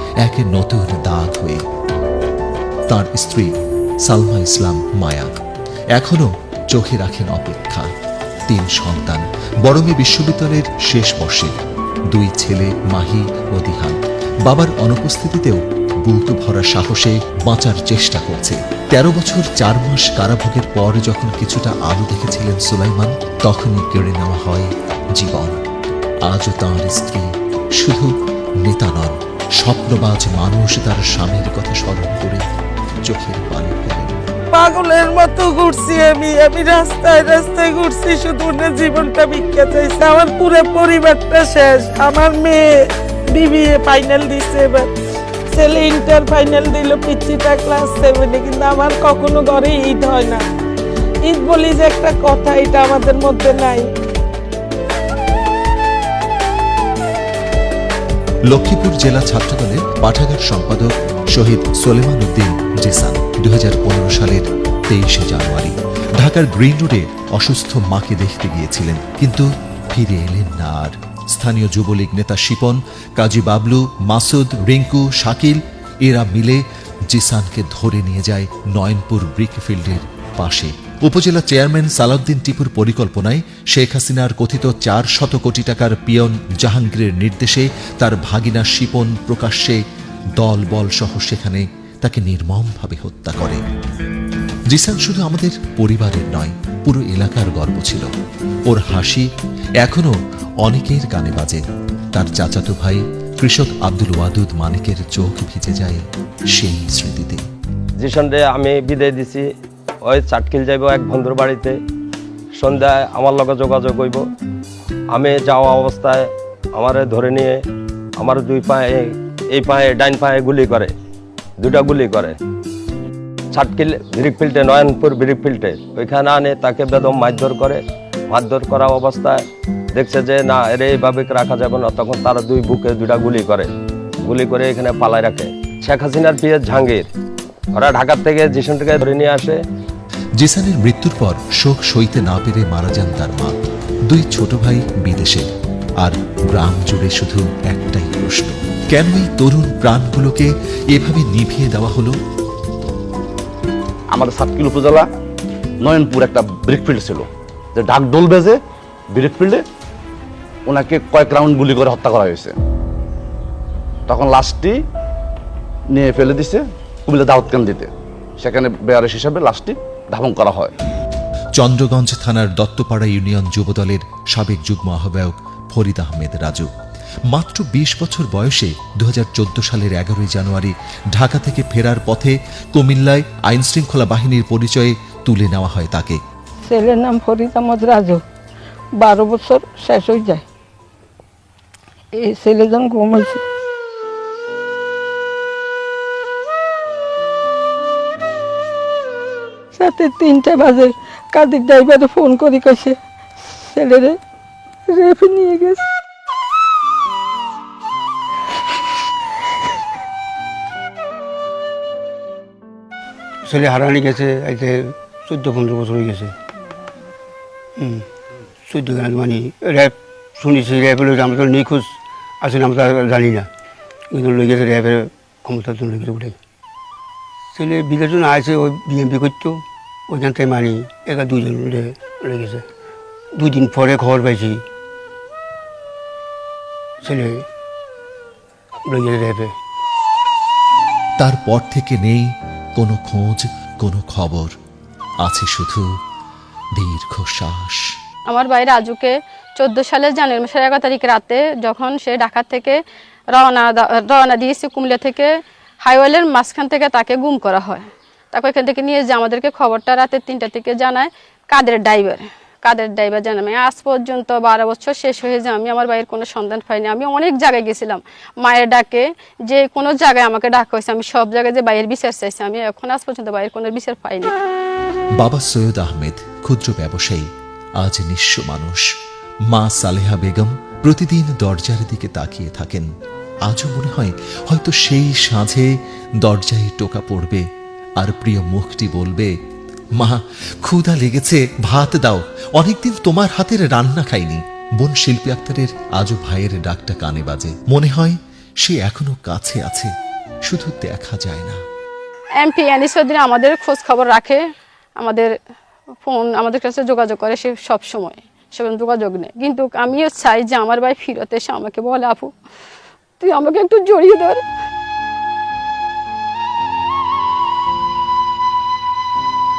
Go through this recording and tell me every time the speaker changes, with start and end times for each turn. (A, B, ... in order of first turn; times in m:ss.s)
0:00.2-0:01.6 A
0:02.9-0:03.5 A
0:04.0-0:05.4 A
0:05.9-0:07.9 A
0:08.5-0:11.6 A
0:12.1-0:25.6 A
0:26.2-0:32.5 A
0:33.0-0:34.2 A
0:34.5-0:44.9 B
0:45.5-0:50.4 B
0:51.2-0:53.9 B
0:58.5-1:29.8 A
1:30.4-1:33.6 A
1:34.7-1:38.1 A
1:38.7-1:39.3 A
1:39.8-1:41.6 A
1:42.1-1:47.4 A
1:48.0-1:49.5 C
1:50.0-1:51.8 C
1:52.6-1:54.2 C
1:55.1-1:57.6 C
1:58.2-2:00.9 C
2:01.6-2:02.4 C
2:03.5-2:13.7 C
2:14.2-2:17.1 C
2:17.8-2:19.6 C
2:20.4-2:32.2 A
2:34.1-2:35.1 D
2:35.8-2:38.6 D
2:39.2-2:39.6 D
2:40.7-2:42.6 D
2:44.1-2:44.8 D
2:45.9-2:50.7 D
2:51.6-2:56.7 A
2:57.3-3:06.2 A
3:06.7-3:08.2 E
3:09.0-3:10.4 E
3:12.2-3:13.4 E
3:19.8-3:23.0 E
3:23.7-3:24.2 E
3:24.9-3:25.8 E
3:33.4-3:36.4 F
3:37.8-3:38.1 F
3:38.6-3:43.5 F
3:44.1-3:46.4 F
3:47.5-3:52.6 F
3:53.4-3:54.6 F
3:57.0-3:57.4 F
3:58.8-3:59.5 F
4:01.2-4:04.6 A
4:05.2-4:05.9 A
4:06.8-4:07.9 A
4:08.3-4:12.8 G
4:13.3-4:15.3 G
4:15.8-4:34.3 G
4:35.2-4:38.9 A
4:39.5-4:42.9 A
4:43.5-4:47.5 A
4:48.0-4:49.4 A
4:50.0-4:59.9 A
5:00.5-5:01.6 A
5:02.4-5:04.4 G
5:05.0-5:05.3 G
5:06.0-5:12.3 G
5:13.2-5:14.4 G